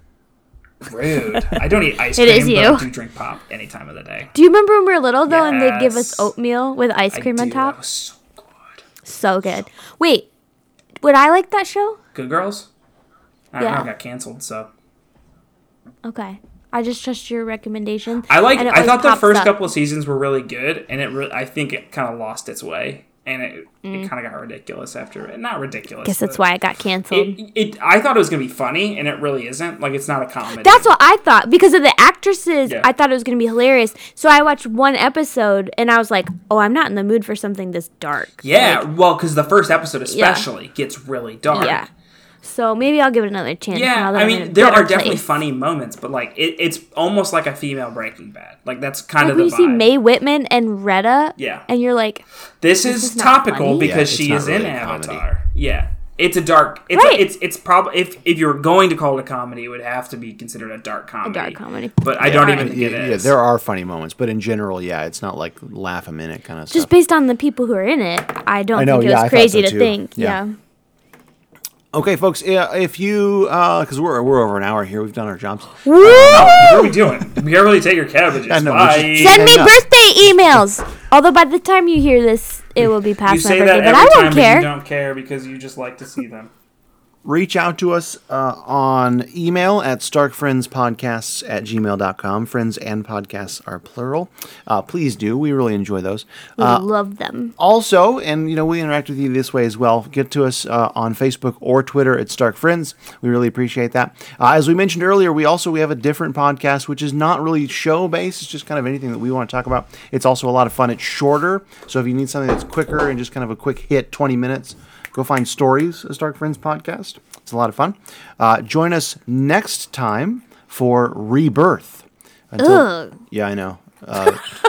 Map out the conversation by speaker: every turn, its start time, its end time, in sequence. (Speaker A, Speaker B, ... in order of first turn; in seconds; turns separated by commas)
Speaker A: 0.8-4.3, Speaker B: 2.1-2.9, Speaker B: 4.3-7.7, Speaker A: 5.3-6.3, Speaker A: 7.1-8.8, Speaker B: 9.1-10.3, Speaker B: 11.0-12.0, Speaker A: 12.1-12.7, Speaker A: 13.5-14.7, Speaker B: 13.6-13.9, Speaker B: 16.0-19.6, Speaker A: 18.3-26.4, Speaker B: 23.8-24.1, Speaker B: 26.0-27.4, Speaker A: 27.1-30.9, Speaker B: 30.6-38.8, Speaker A: 38.4-41.8, Speaker B: 40.1-40.5, Speaker B: 41.5-41.9, Speaker B: 42.4-45.2, Speaker A: 43.7-49.9, Speaker B: 49.2-52.2, Speaker A: 51.4-51.6, Speaker A: 52.6-63.3, Speaker B: 52.9-53.9, Speaker C: 53.8-55.2, Speaker B: 56.9-57.2, Speaker B: 61.2-62.6, Speaker C: 62.2-66.9, Speaker B: 66.7-70.5, Speaker C: 68.7-70.4, Speaker C: 71.9-76.7, Speaker B: 75.8-76.7, Speaker A: 76.1-79.5, Speaker C: 78.5-79.8, Speaker B: 79.1-84.7, Speaker A: 83.2-86.5, Speaker C: 87.2-96.8, Speaker B: 96.6-97.5, Speaker C: 97.6-124.4, Speaker B: 122.6-123.2